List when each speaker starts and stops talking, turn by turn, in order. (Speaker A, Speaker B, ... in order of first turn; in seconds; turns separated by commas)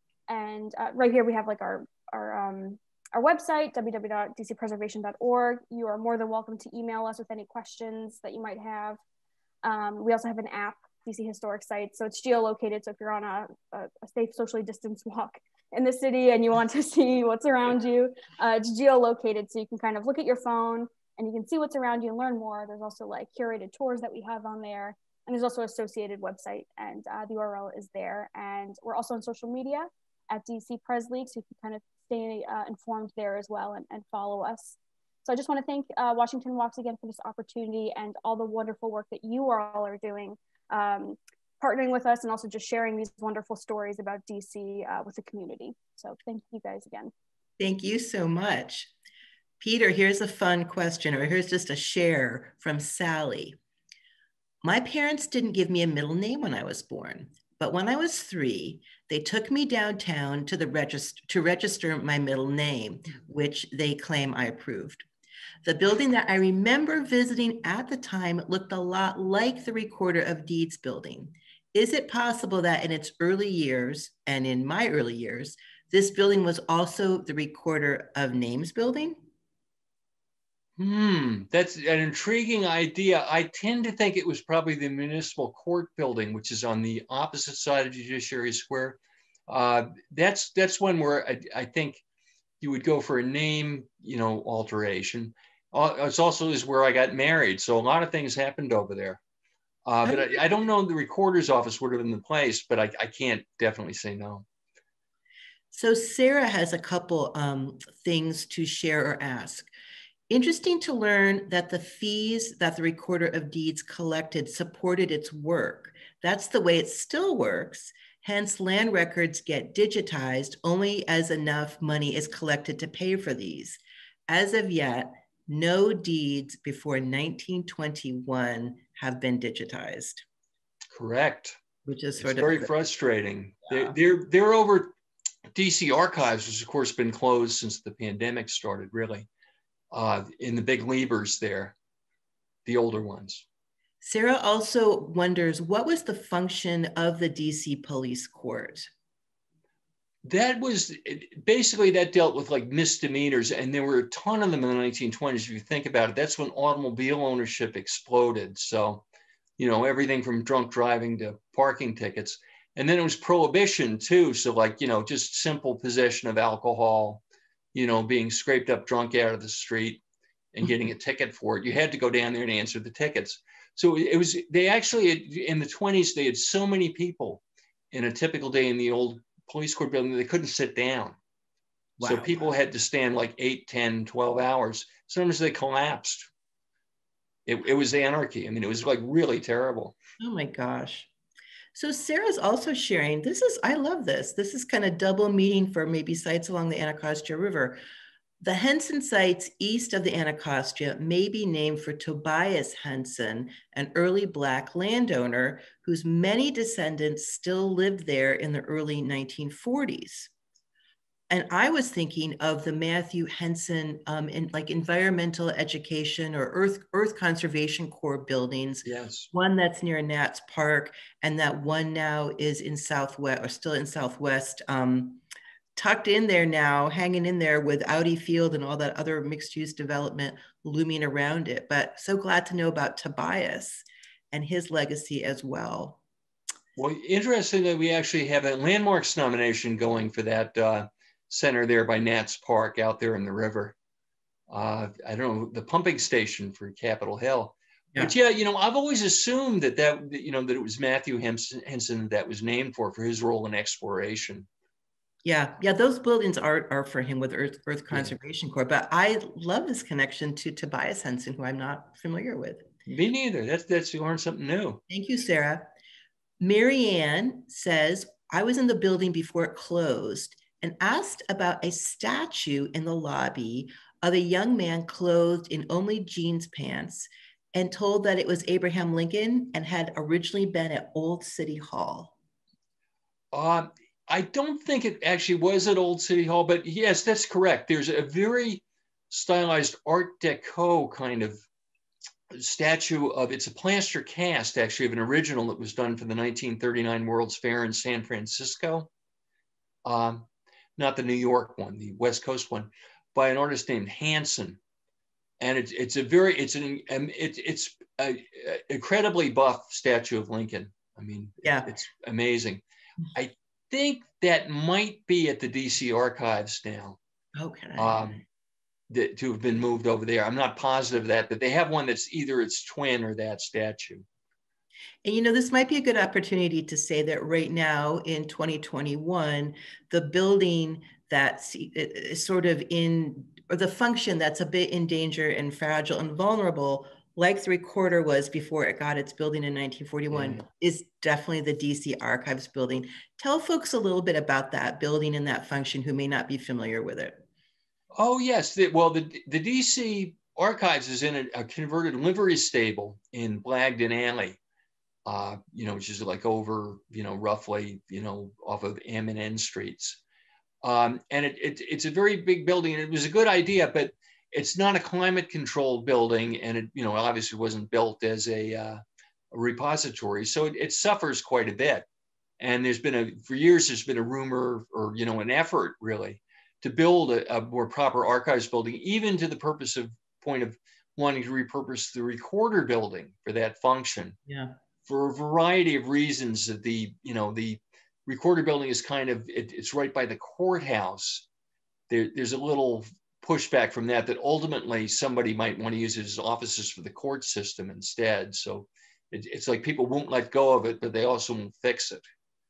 Speaker A: 0.3-9.0, Speaker A: 9.6-47.1, Speaker B: 47.6-48.9, Speaker B: 49.6-53.6, Speaker B: 54.6-65.0, Speaker B: 65.6-79.2, Speaker C: 80.8-92.0, Speaker C: 92.6-99.2, Speaker C: 99.8-104.5, Speaker B: 100.0-100.3, Speaker B: 105.7-109.7, Speaker B: 110.3-130.2, Speaker C: 130.9-131.6, Speaker B: 131.8-132.7, Speaker C: 132.2-134.9, Speaker C: 135.5-139.3, Speaker C: 139.9-141.7, Speaker C: 142.7-143.4, Speaker B: 144.0-148.9, Speaker C: 150.2-159.0, Speaker C: 159.6-167.2, Speaker C: 167.7-170.0, Speaker C: 170.5-181.2, Speaker B: 182.0-182.5, Speaker C: 182.0-186.3, Speaker C: 187.4-189.9, Speaker B: 190.2-191.1, Speaker B: 191.7-197.8, Speaker B: 198.4-210.3, Speaker B: 211.3-225.2, Speaker C: 218.8-219.3, Speaker B: 225.8-236.0, Speaker C: 236.8-243.7, Speaker C: 244.5-254.5, Speaker B: 255.2-262.7, Speaker C: 262.9-264.8, Speaker B: 264.9-265.7, Speaker B: 266.4-282.1, Speaker C: 283.3-291.4, Speaker C: 292.3-298.9, Speaker C: 299.8-304.6, Speaker C: 305.4-312.6, Speaker B: 311.4-311.7, Speaker C: 313.1-317.0, Speaker B: 317.4-318.2, Speaker C: 317.8-318.2, Speaker C: 318.9-324.0, Speaker B: 325.0-347.2, Speaker C: 340.1-340.4, Speaker C: 347.9-354.4, Speaker C: 355.1-360.0, Speaker C: 360.6-371.9, Speaker C: 372.4-384.2, Speaker B: 384.3-384.6, Speaker C: 384.9-391.2, Speaker C: 391.9-402.0